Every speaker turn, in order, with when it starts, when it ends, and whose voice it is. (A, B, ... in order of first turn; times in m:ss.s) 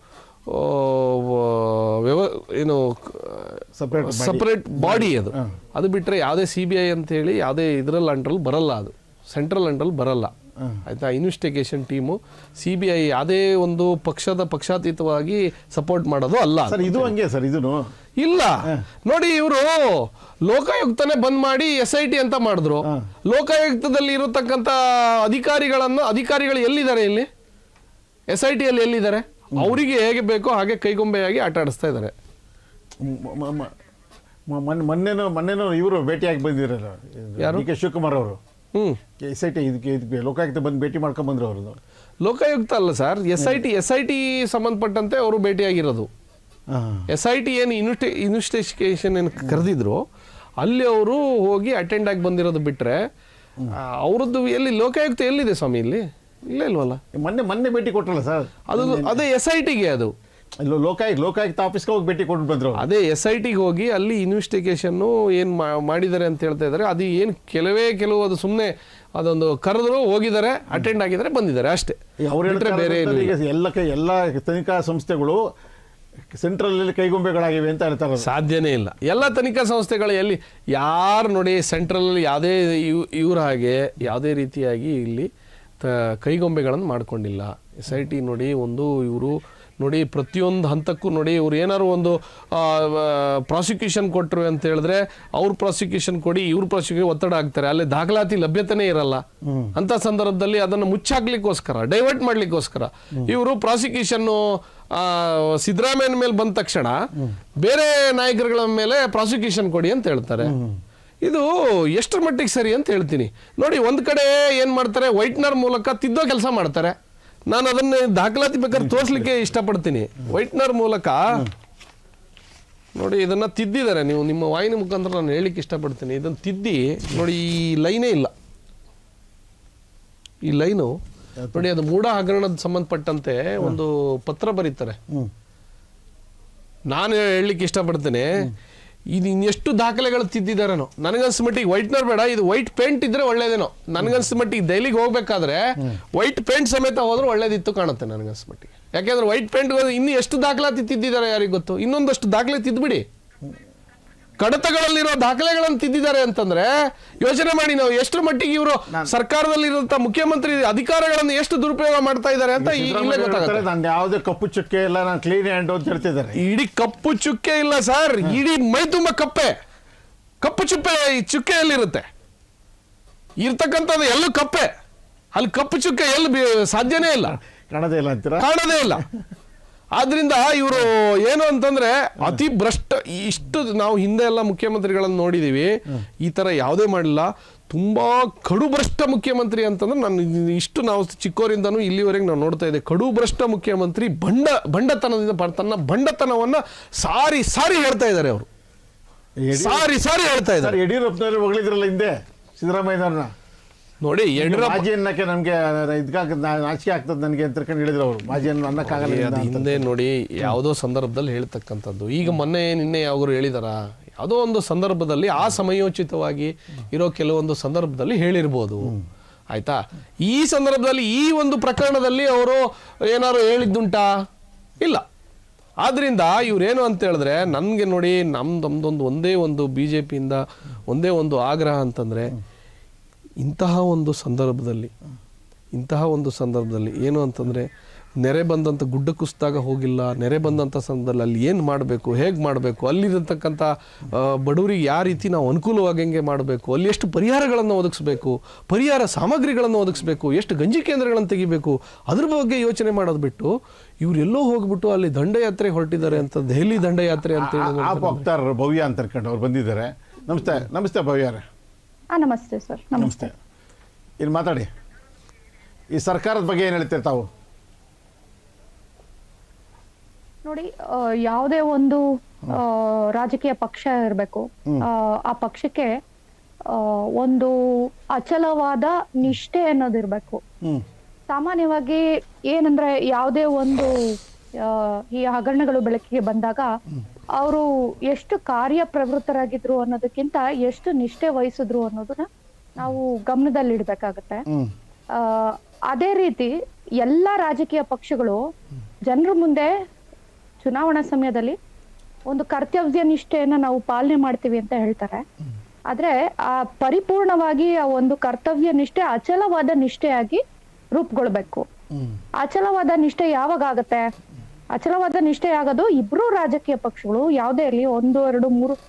0:00.5-0:10.3 A
0:03.8-0:05.5 B
0:10.8-0:17.1 A
0:16.7-0:17.9 B
0:18.2-0:27.3 A
0:28.3-0:32.1 A
0:33.0-0:33.7 B
0:34.5-0:38.4 B
0:37.4-0:37.6 A
0:39.2-0:41.8 B
0:42.2-0:46.1 A
0:43.4-0:43.6 B
0:46.7-0:47.1 B
0:47.1-0:50.0 A
0:50.6-0:53.0 A
0:53.7-0:57.0 A
0:57.1-0:59.2 B
0:58.7-1:00.1 A
1:00.6-1:02.8 B
1:02.8-1:13.3 A
1:12.2-1:15.4 B
1:16.3-1:18.3 B
1:18.2-1:25.3 A
1:25.8-1:39.2 A
1:39.4-1:39.7 B
1:39.7-1:47.0 A
1:47.6-1:50.5 A
1:50.4-1:50.8 B
1:51.2-1:57.0 A
1:57.5-2:01.4 A
1:58.7-1:59.3 B
2:03.0-2:08.3 A
2:10.4-2:10.9 A
2:11.4-2:11.7 B
2:11.5-2:15.0 A
2:16.9-2:18.5 A
2:19.1-2:33.0 A
2:34.4-2:43.7 A
2:42.6-2:46.4 B
2:46.4-2:49.5 A
2:50.4-2:52.0 A
2:53.4-2:54.7 A
2:55.3-2:57.4 A
2:57.7-2:58.5 B
2:58.4-2:59.0 A
2:59.9-3:18.5 A
3:19.4-3:19.9 B
3:19.5-3:20.8 A
3:20.5-3:23.3 B
3:24.0-3:24.9 A
3:24.4-3:29.9 B
3:28.8-3:39.0 A
3:39.5-3:44.2 A
3:45.8-3:52.3 A
3:53.4-3:54.9 A
3:55.7-4:18.2 A
4:17.3-4:21.4 B
4:22.1-4:23.3 C
4:23.0-4:23.3 B
4:24.2-4:24.6 B
4:25.9-4:27.3 B
4:30.4-4:35.9 C
4:36.7-4:37.5 C
4:38.1-4:40.4 C
4:41.3-4:43.9 C
4:44.6-4:46.7 C
4:47.3-4:52.3 C
4:52.8-4:54.4 C
4:55.1-4:58.4 C
4:59.1-4:59.7 C
5:00.6-5:01.6 C
5:02.3-5:05.2 C
5:05.9-5:10.4 C
5:10.9-5:11.7 C
5:12.4-5:14.0 C
5:14.7-5:18.7 C